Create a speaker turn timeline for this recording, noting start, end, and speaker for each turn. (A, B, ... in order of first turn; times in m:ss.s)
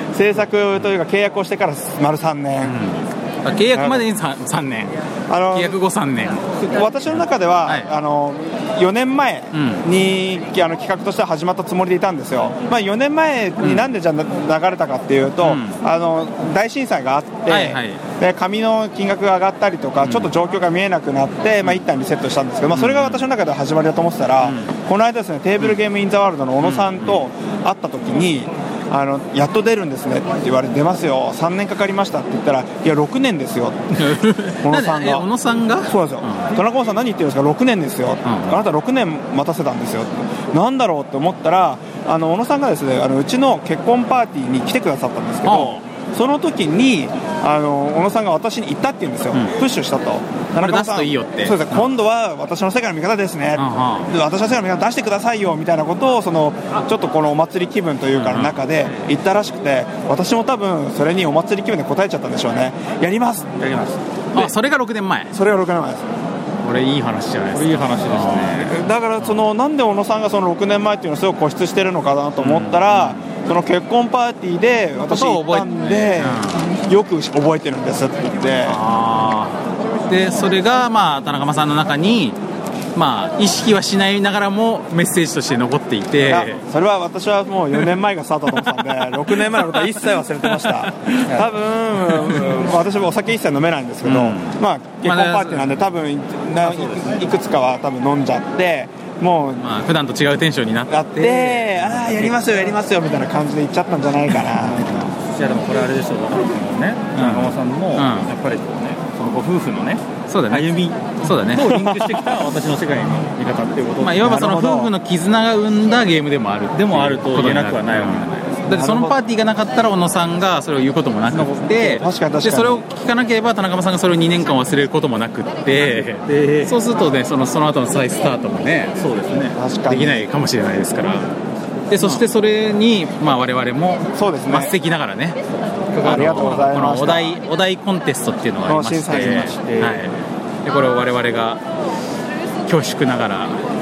0:00.1-0:02.8 A
0:02.6-0:05.0 B
0:03.7-0:04.1 A
0:05.3-0:05.8 A
0:05.5-0:06.4 B
0:06.5-0:35.3 A
0:07.1-0:07.9 B
0:09.5-0:09.8 B
0:13.6-0:13.9 B
0:15.4-0:15.8 B
0:17.5-0:18.0 B
0:20.0-0:20.3 B
0:22.7-0:23.3 B
0:24.4-0:24.7 B
0:26.6-0:27.2 B
0:34.0-0:36.5 B
0:35.8-1:03.5 A
0:38.2-0:38.6 B
0:45.4-0:45.8 B
0:50.6-0:51.9 B
0:53.5-0:54.1 B
0:58.1-0:58.9 B
1:03.6-1:04.0 C
1:04.3-1:05.3 B
1:05.3-1:06.1 A
1:06.6-1:09.4 B
1:07.5-1:08.8 C
1:08.7-1:18.8 A
1:12.4-1:13.2 B
1:15.1-1:16.7 B
1:18.6-1:22.4 B
1:22.9-1:26.6 B
1:26.2-1:39.6 A
1:30.6-1:30.9 B
1:31.2-1:31.5 C
1:32.1-1:32.4 B
1:34.0-1:35.9 B
1:36.6-1:37.1 C
1:39.6-1:42.2 B
1:40.9-1:45.1 A
1:44.4-1:45.1 B
1:45.2-1:54.9 C
1:47.1-1:48.3 B
1:50.3-1:51.9 B
1:54.0-2:09.0 B
1:56.7-1:58.7 C
1:58.7-1:59.2 A
2:01.3-2:01.9 C
2:01.7-2:02.8 A
2:06.2-2:06.8 C
2:09.0-2:09.6 C
2:09.5-2:10.3 A
2:09.9-2:11.3 B
2:11.9-2:15.4 B
2:14.1-2:14.7 A
2:16.0-2:21.6 B
2:16.0-2:17.4 A
2:16.0-2:16.7 C
2:18.6-2:19.7 A
2:19.1-2:20.0 C
2:22.6-2:23.6 B